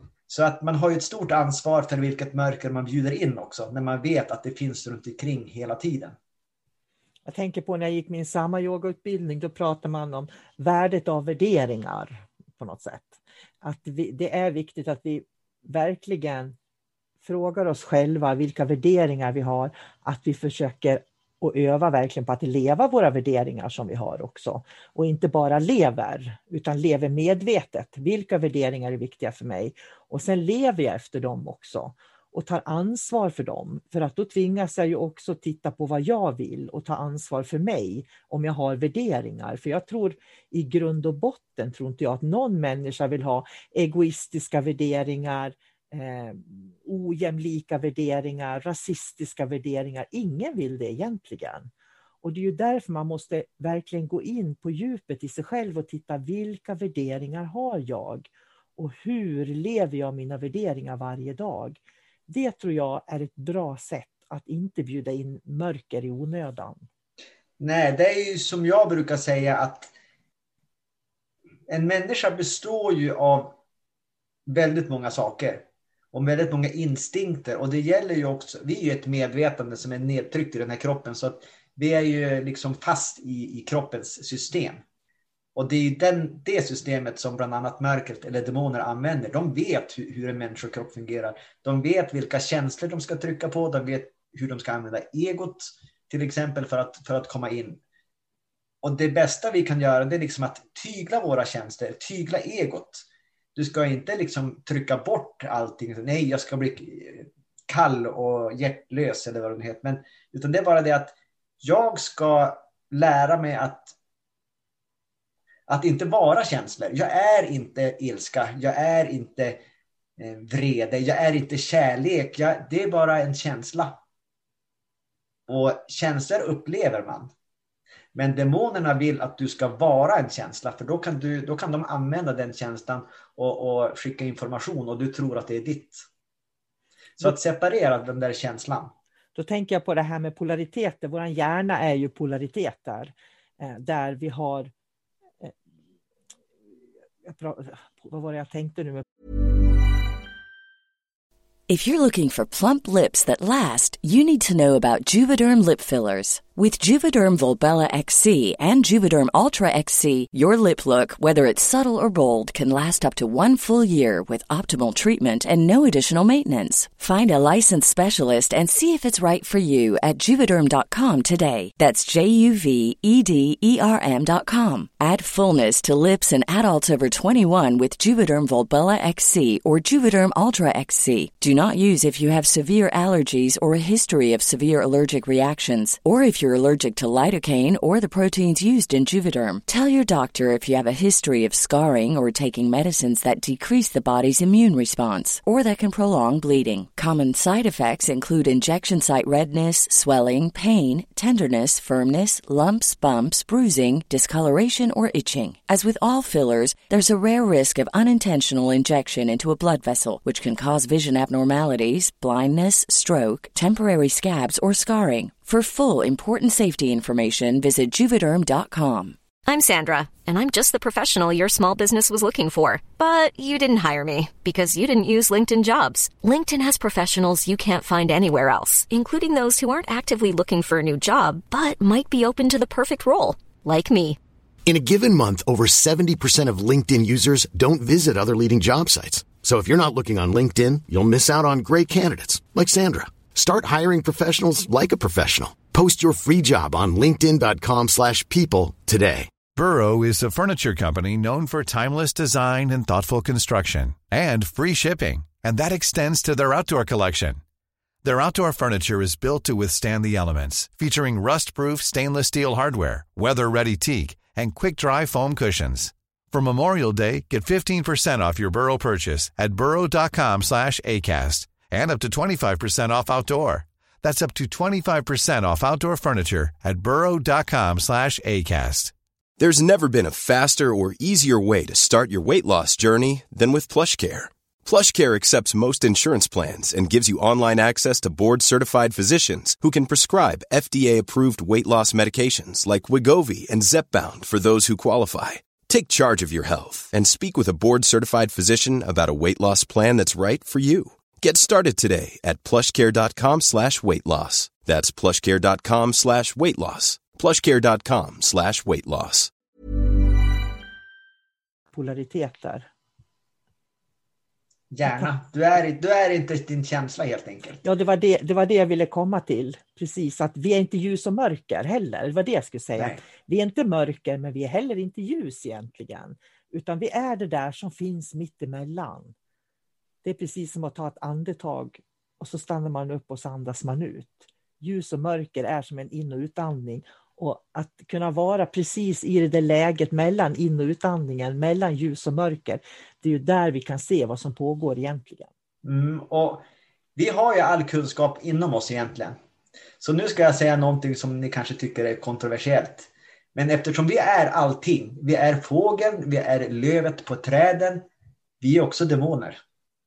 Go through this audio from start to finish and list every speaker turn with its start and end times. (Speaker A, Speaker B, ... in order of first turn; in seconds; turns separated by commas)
Speaker A: 0.3-6.2, Speaker B: 7.3-16.6, Speaker B: 17.2-51.7, Speaker B: 52.2-66.8, Speaker A: 67.6-69.9, Speaker A: 71.7-73.6, Speaker A: 74.5-84.8, Speaker A: 85.5-97.8, Speaker A: 98.8-113.9, Speaker A: 115.7-119.6, Speaker A: 120.2-124.0, Speaker A: 125.5-127.3, Speaker A: 128.1-136.0, Speaker A: 137.2-138.9, Speaker B: 139.3-144.7, Speaker B: 147.3-149.1, Speaker C: 151.7-219.2, Speaker D: 219.4-234.2, Speaker E: 234.7-249.3, Speaker F: 249.5-257.4, Speaker F: 258.0-278.9, Speaker G: 279.4-309.3, Speaker B: 311.7-312.7, Speaker A: 314.7-317.6, Speaker B: 317.6-329.1, Speaker A: 322.8-323.0, Speaker B: 330.0-345.3, Speaker A: 345.6-346.4, Speaker A: 347.0-349.2, Speaker A: 349.8-357.9, Speaker A: 358.4-359.4